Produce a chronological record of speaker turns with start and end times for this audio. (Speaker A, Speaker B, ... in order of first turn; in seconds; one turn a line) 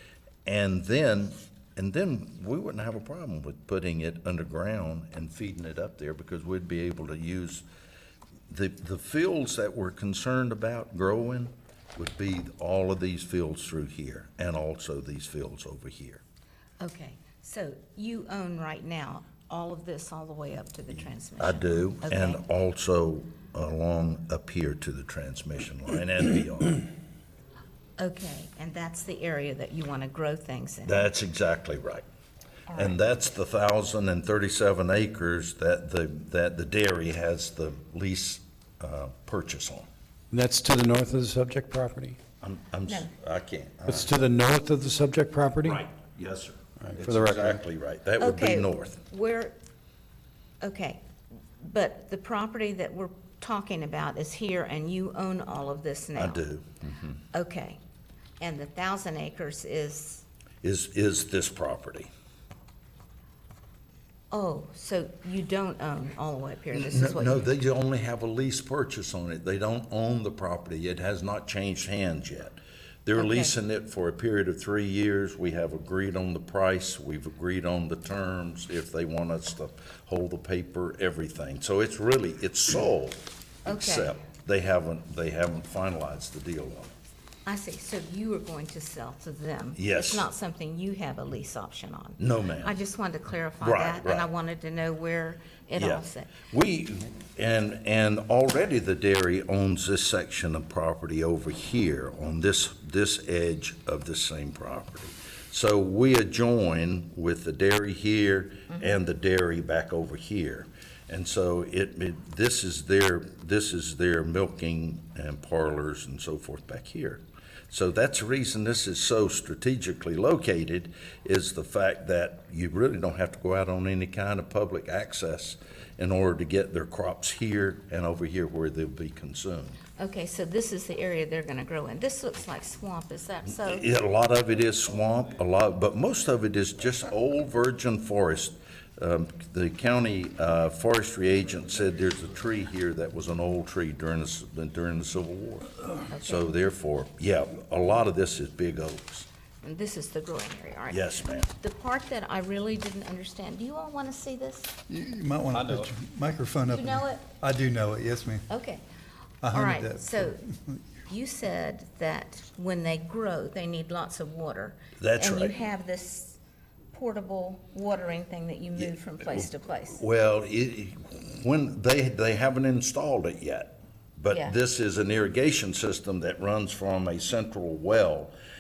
Speaker A: 0.5-7.7
Speaker A: 8.5-16.2
Speaker B: 16.8-22.4
Speaker A: 20.9-26.8
Speaker B: 28.0-31.0
Speaker A: 30.9-32.0
Speaker B: 32.7-33.0
Speaker A: 32.7-39.9
Speaker C: 40.3-42.2
Speaker A: 42.4-44.1
Speaker C: 43.9-45.8
Speaker A: 45.6-49.0
Speaker C: 46.8-47.6
Speaker B: 48.2-49.6
Speaker B: 50.6-51.0
Speaker B: 51.6-56.5
Speaker A: 56.2-57.2
Speaker B: 57.3-57.8
Speaker B: 58.4-60.2
Speaker A: 60.6-62.1
Speaker B: 64.3-67.5
Speaker A: 66.7-86.9
Speaker B: 73.2-73.5
Speaker B: 83.7-84.1
Speaker B: 87.5-96.3
Speaker A: 89.8-90.3
Speaker A: 92.2-92.8
Speaker A: 93.6-94.3
Speaker A: 95.8-129.8
Speaker B: 130.0-133.9
Speaker A: 133.5-149.3
Speaker B: 146.1-146.5
Speaker B: 149.6-154.7
Speaker A: 150.9-151.5
Speaker D: 154.9-158.4
Speaker B: 156.7-157.3
Speaker B: 158.5-158.8
Speaker D: 159.4-160.3
Speaker B: 159.5-160.4
Speaker B: 161.1-166.4
Speaker A: 165.0-165.5
Speaker B: 166.9-170.0
Speaker A: 168.8-178.3
Speaker B: 174.3-174.6